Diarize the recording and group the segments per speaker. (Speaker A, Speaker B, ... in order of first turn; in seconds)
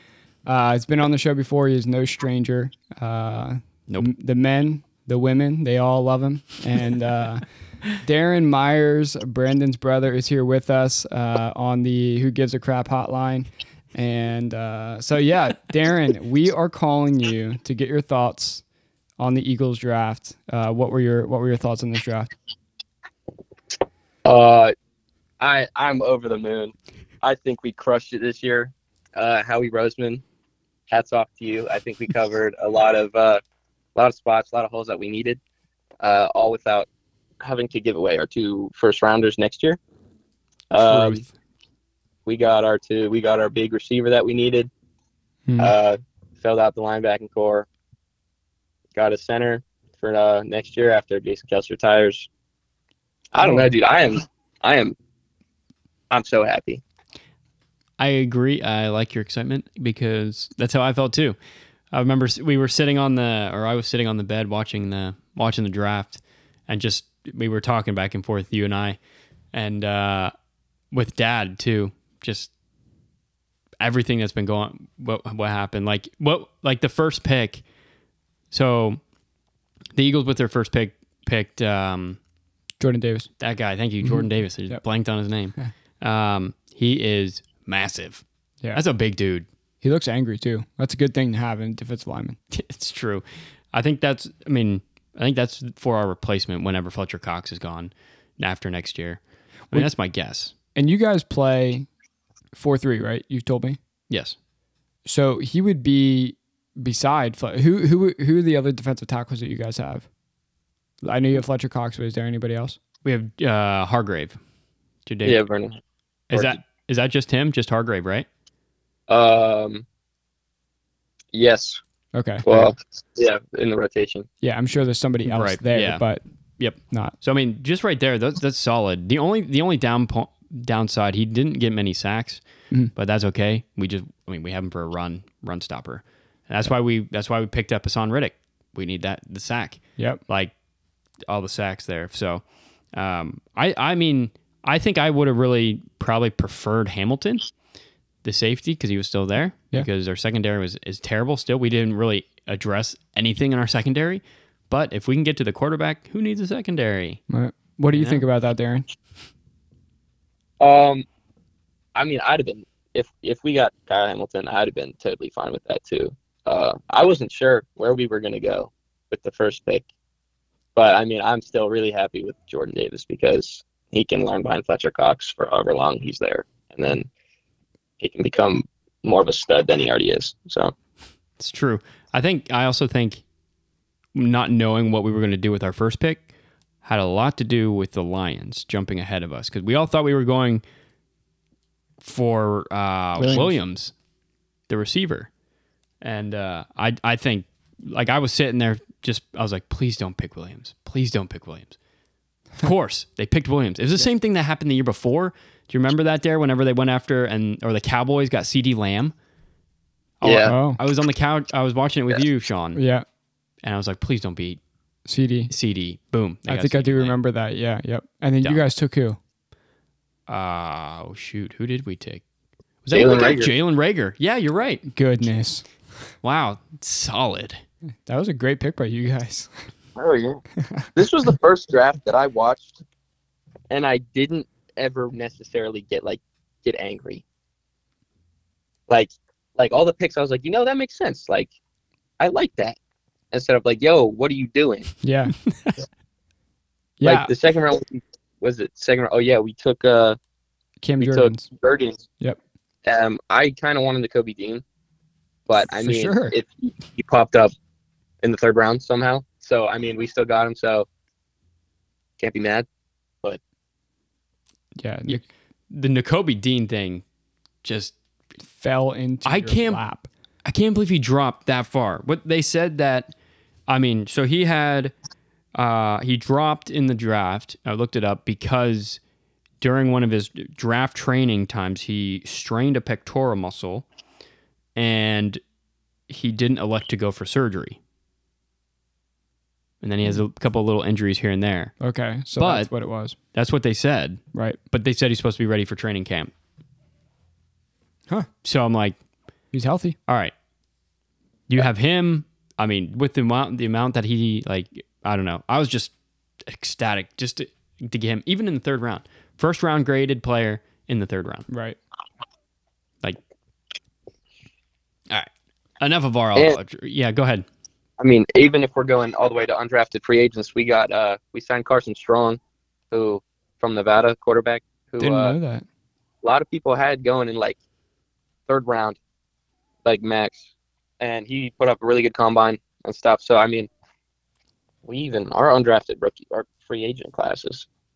Speaker A: 0.4-7.4, 8.0-18.6, 19.2-22.3, 45.5-45.7, 53.4-53.7, 82.8-83.3, 84.0-84.8, 89.8-92.4, 100.7-101.9, 102.5-103.8, 105.0-110.1, 111.0-112.8, 122.1-122.7, 124.4-126.2, 157.3-158.9, 193.2-193.6, 210.4-210.8, 212.7-213.0, 215.1-215.5, 216.5-219.2, 224.9-225.6, 228.0-229.5, 230.6-230.9, 245.0-245.3, 247.0-247.3, 250.8-251.5, 255.7-256.3, 264.8-265.2, 268.4-270.1, 291.8-293.1, 299.5-300.0, 311.5-311.8, 325.0-325.6
Speaker B: 24.2-24.7, 25.4-30.2, 30.9-33.4, 33.9-35.4, 36.0-36.9, 37.4-39.8, 40.7-41.2, 42.2-44.7, 45.6-47.7, 48.9-52.3, 53.3-54.9, 56.1-56.8, 115.2-115.8, 119.1-119.8, 121.3-121.8, 122.4-124.3, 160.6-161.0, 161.9-169.8, 170.8-177.1, 178.0-180.7, 210.2-210.5, 222.9-223.5, 229.9-230.4, 230.9-232.8, 233.7-237.2, 238.9-241.5, 242.2-242.8, 243.3-244.9, 247.0-250.2, 251.0-252.1, 252.8-254.6, 255.5-257.5, 258.2-260.9, 262.2-262.6, 318.0-322.4, 322.9-325.4, 326.2-327.6, 328.5-329.0, 329.8-333.7, 334.8-337.6
Speaker C: 40.9-41.2, 58.0-61.4, 61.9-69.0, 69.5-70.3, 70.9-72.5, 73.8-77.6, 78.5-79.0, 79.9-82.2, 83.4-88.2, 88.7-89.5, 92.5-100.5, 104.1-104.3, 113.0-114.4, 115.0-115.4, 116.3-118.3, 125.2-126.0, 126.6-132.4, 132.9-140.5, 141.2-147.5, 148.2-157.2, 157.9-158.2, 181.4-183.2, 184.1-186.2, 186.8-190.6, 192.0-193.9, 194.7-195.3, 196.0-201.8, 202.6-209.1, 210.2-212.8, 213.6-214.6, 215.5-217.2, 220.3-222.2, 222.8-224.8, 226.2-227.6, 245.5-245.8, 265.1-267.0, 267.6-267.9, 269.2-269.8, 270.4-273.1, 273.7-274.9, 275.5-279.0, 279.6-283.9, 284.8-285.4, 286.1-287.8, 289.8-291.7, 292.4-292.7, 293.3-296.3, 298.4-299.0, 300.1-300.3, 301.5-305.9, 306.4-311.5, 315.1-317.4